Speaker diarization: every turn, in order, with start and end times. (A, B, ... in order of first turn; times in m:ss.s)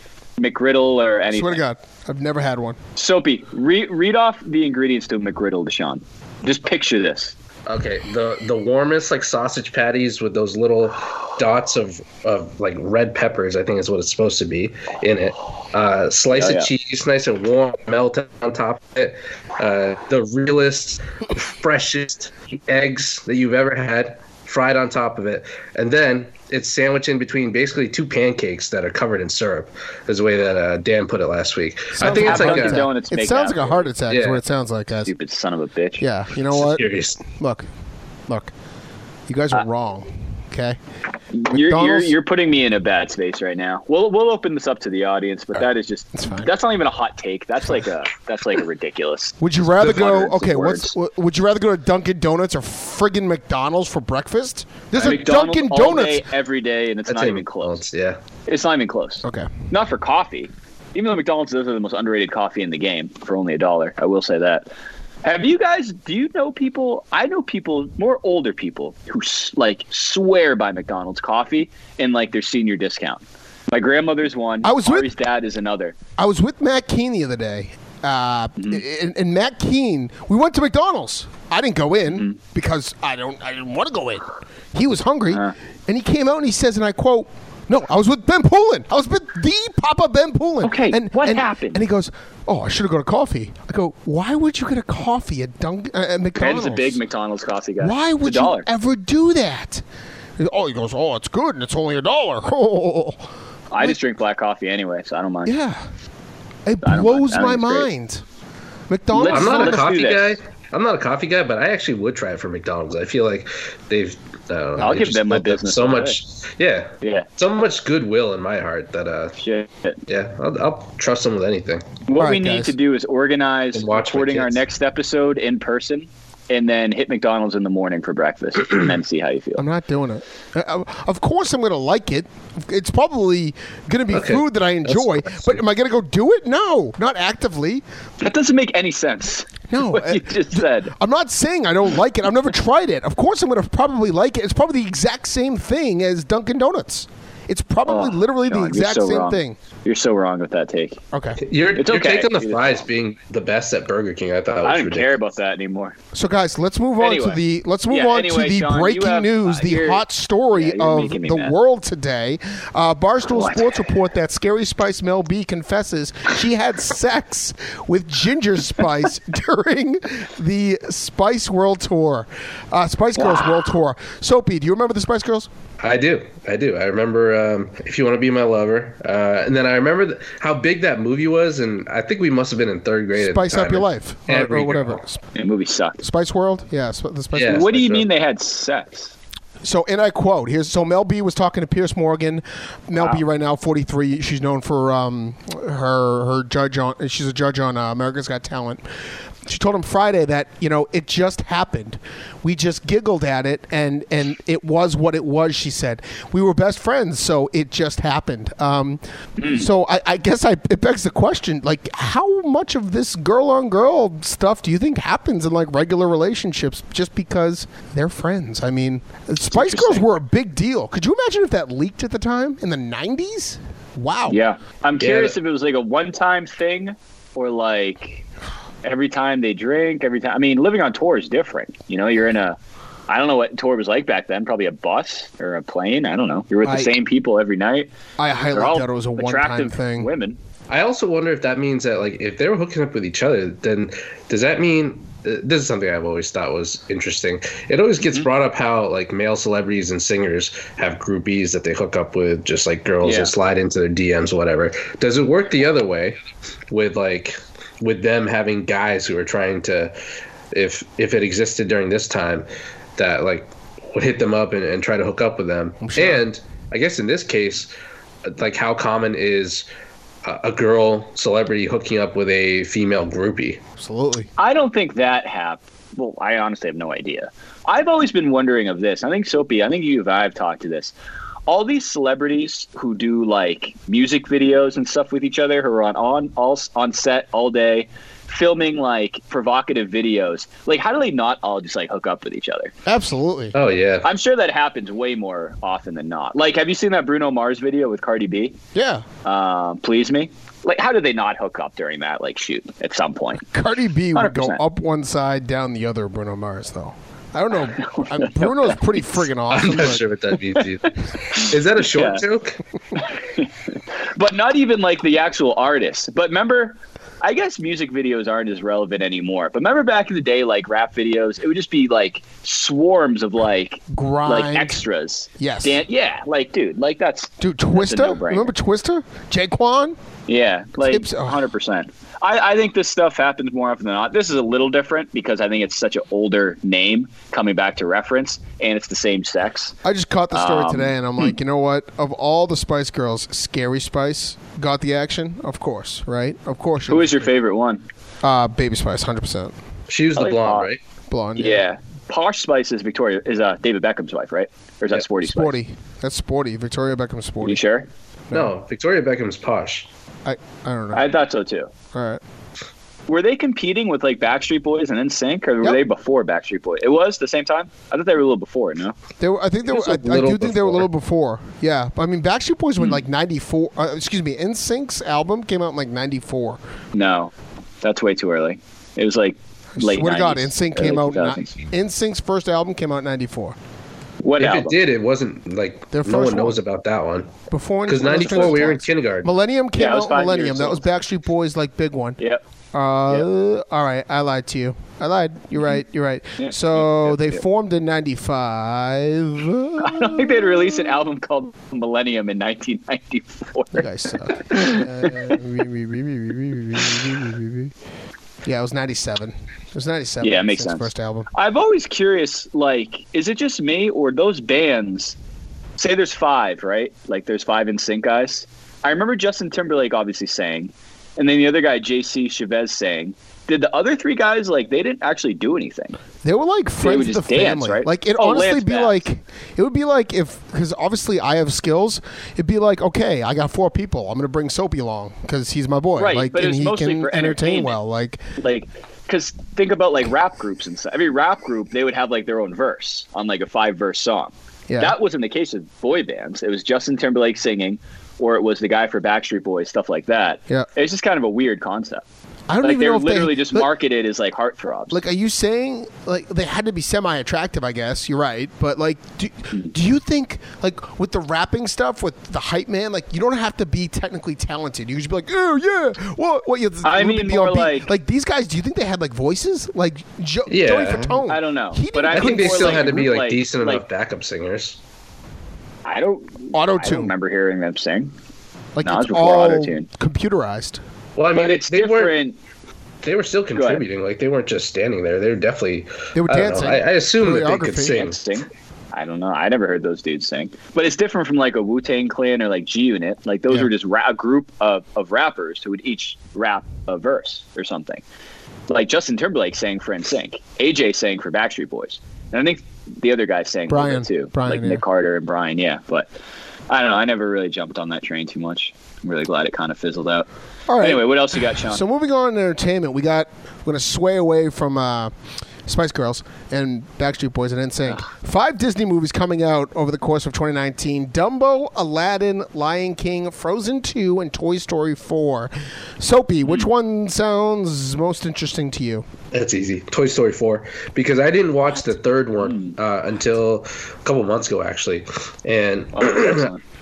0:00.4-0:01.6 A
0:01.3-0:02.8 B
0:03.0-0:07.4 A
0:07.7-0:32.9 C
0:16.3-0:16.7 A
0:31.9-0:35.1 B
0:32.0-0:33.9 A
0:34.1-0:34.4 C
0:35.0-0:36.0 A
0:36.0-0:37.7 B
0:36.5-0:37.2 C
0:39.3-0:40.8 B
0:41.3-0:51.0 A
0:41.5-0:42.2 B
0:46.1-0:46.5 B
0:49.4-0:56.3 B
0:54.9-0:57.8 A
0:57.1-0:58.2 C
0:58.5-1:04.7 A
0:59.2-0:59.7 B
1:05.2-1:16.0 A
1:14.6-1:15.1 B
1:16.2-1:37.0 B
1:30.6-1:31.8 A
1:36.4-1:38.7 A
1:37.8-1:39.8 B
1:40.4-1:43.3 B
1:43.7-1:45.6 A
1:45.5-1:45.8 B
1:46.7-1:48.2 B
1:46.8-1:47.9 A
1:48.9-1:49.9 B
1:49.1-1:50.4 A
1:49.3-1:59.4 C
1:54.8-1:56.2 A
1:57.0-1:57.3 A
1:59.4-2:00.0 A
2:00.1-2:01.9 C
2:02.1-2:09.6 A
2:02.2-2:02.8 B
2:03.7-2:04.6 C
2:09.6-2:17.8 B
2:14.1-2:15.6 C
2:18.2-2:20.9 A
2:19.7-2:29.6 B
2:27.9-2:31.0 A
2:31.1-2:31.4 B
2:31.4-2:35.1 C
2:31.8-2:32.8 A
2:34.6-2:36.0 A
2:36.1-2:55.5 B
2:37.0-2:41.6 A
2:43.3-2:43.8 A
2:53.2-2:53.6 A
2:55.8-3:05.0 C
3:03.2-3:05.2 B
3:05.4-3:06.0 A
3:06.0-3:07.8 B
3:07.3-3:08.1 C
3:07.4-3:09.1 A
3:09.6-3:18.8 B
3:19.4-3:44.4 B
3:29.4-3:29.7 A
3:39.5-3:40.1 A
3:44.3-3:48.2 A
3:45.0-3:45.4 C
3:48.8-3:57.9 A
3:56.6-3:57.0 B
3:58.2-4:00.1 B
3:58.5-4:00.4 A
4:00.7-4:20.0 C
4:13.0-4:13.3 A
4:20.5-4:22.5 C
4:23.0-4:27.7 C
4:25.8-4:26.2 B
4:28.2-4:29.7 C
4:30.2-4:33.6 C
4:33.8-4:34.3 B
4:34.4-4:40.9 A
4:41.5-4:52.7 A
4:52.9-4:53.5 B
4:53.5-4:54.1 C
4:54.0-4:58.6 A
4:58.8-4:59.0 B
4:59.2-5:03.4 A
5:03.5-5:10.0 B
5:04.2-5:04.6 A
5:07.7-5:08.8 A
5:09.5-5:12.6 C
5:10.6-5:12.2 A
5:13.0-5:13.5 A
5:14.1-5:28.5 A
5:23.9-5:24.8 B
5:25.4-5:25.8 B
5:27.4-5:30.0 B
5:30.3-5:39.7 A
5:30.8-5:31.4 B
5:39.8-5:47.3 B
5:40.3-5:41.0 A
5:46.9-5:47.8 A
5:48.2-5:49.5 B
5:49.9-5:50.8 C
5:50.2-5:50.7 A
5:51.1-5:51.6 B
5:51.4-5:55.6 A
5:55.2-5:57.6 B
5:57.4-5:57.9 A
5:58.3-5:59.9 C
6:00.2-6:01.1 B
6:00.9-6:01.7 A
6:01.9-6:02.2 B
6:03.1-6:09.0 A
6:09.2-6:16.6 B
6:09.7-6:10.9 C
6:16.9-6:21.6 A
6:19.8-6:23.6 B
6:24.2-6:24.8 A
6:24.4-6:27.4 C
6:25.9-6:26.6 B
6:27.5-6:32.2 B
6:27.9-6:29.3 C
6:28.2-6:28.5 A
6:29.8-6:30.8 A
6:32.7-6:40.8 B
6:36.4-6:37.4 A
6:39.8-6:43.9 A
6:43.8-6:47.7 B
6:44.4-6:45.4 A
6:48.4-6:51.3 B
6:50.2-6:55.2 A
6:55.8-7:06.0 A
7:06.2-7:18.2 B
7:06.8-7:09.1 A
7:16.0-7:17.8 A
7:18.4-7:32.0 A
7:24.7-7:25.0 B
7:32.5-7:33.7 B
7:32.6-7:35.0 A
7:34.9-7:53.1 B
7:46.8-7:47.9 A
7:50.5-7:51.2 C
7:51.3-7:53.8 A
7:52.1-7:54.8 C
7:55.8-7:58.1 A
7:56.5-7:57.1 B
7:58.8-8:00.8 B
7:58.8-7:59.9 A
8:01.2-8:02.2 C
8:01.3-8:02.4 A
8:03.0-8:08.2 C
8:03.6-8:03.8 A
8:06.2-8:08.0 B
8:07.8-8:18.0 A
8:18.7-8:26.1 A
8:23.7-8:24.8 B
8:26.7-8:30.3 A
8:30.7-8:35.1 B
8:30.8-8:31.8 A
8:35.7-8:49.0 B
8:49.3-8:56.5 C
8:52.4-8:52.7 A
8:55.9-8:56.6 A